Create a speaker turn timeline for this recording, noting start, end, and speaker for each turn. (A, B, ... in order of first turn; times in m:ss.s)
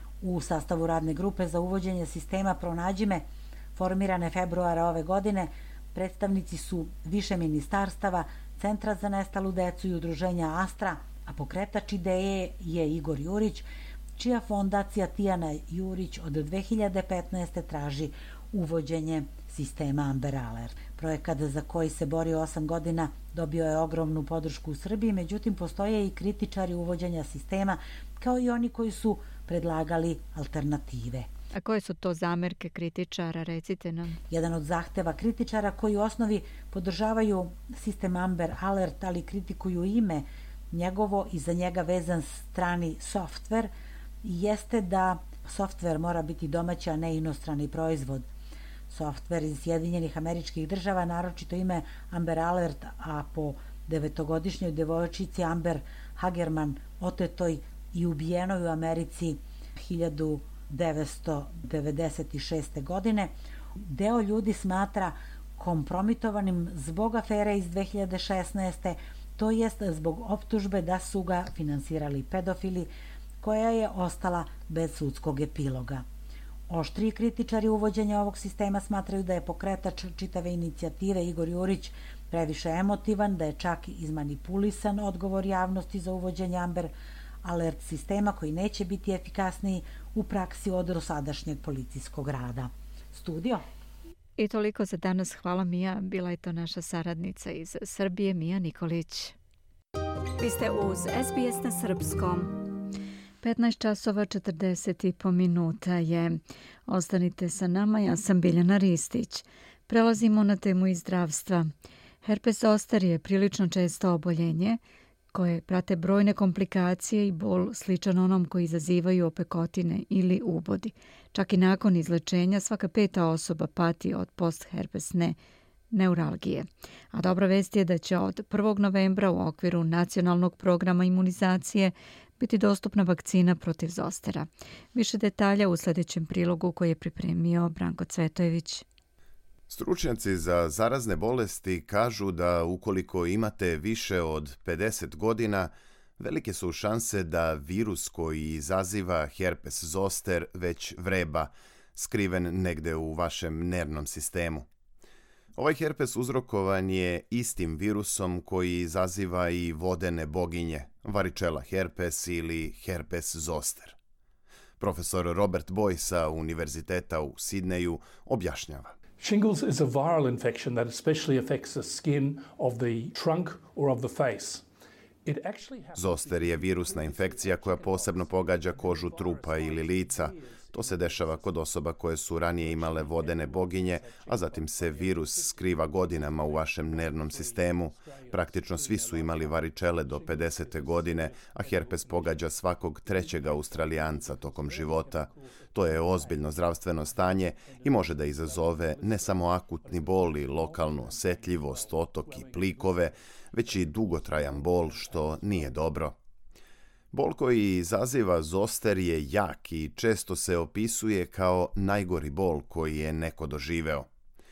0:00.2-0:31.3 A
0:31.5-0:34.2 B
0:34.3-0:43.7 A
0:44.2-0:48.3 A
0:48.9-1:03.3 A
1:03.8-1:12.9 A
1:13.4-1:16.0 A
1:16.7-1:26.9 A
1:27.4-1:33.6 A
1:34.4-1:39.3 B
1:40.4-1:42.6 B
1:43.4-1:51.7 B
1:52.2-1:54.8 B
1:55.3-2:05.4 B
2:05.9-2:18.8 B
2:19.7-2:34.6 C
2:35.6-2:44.0 C
2:44.8-2:49.0 C
2:49.2-2:54.6 D
2:55.2-3:01.8 D
2:55.9-3:26.1 C
3:02.6-3:26.0 D
3:27.1-3:34.1 C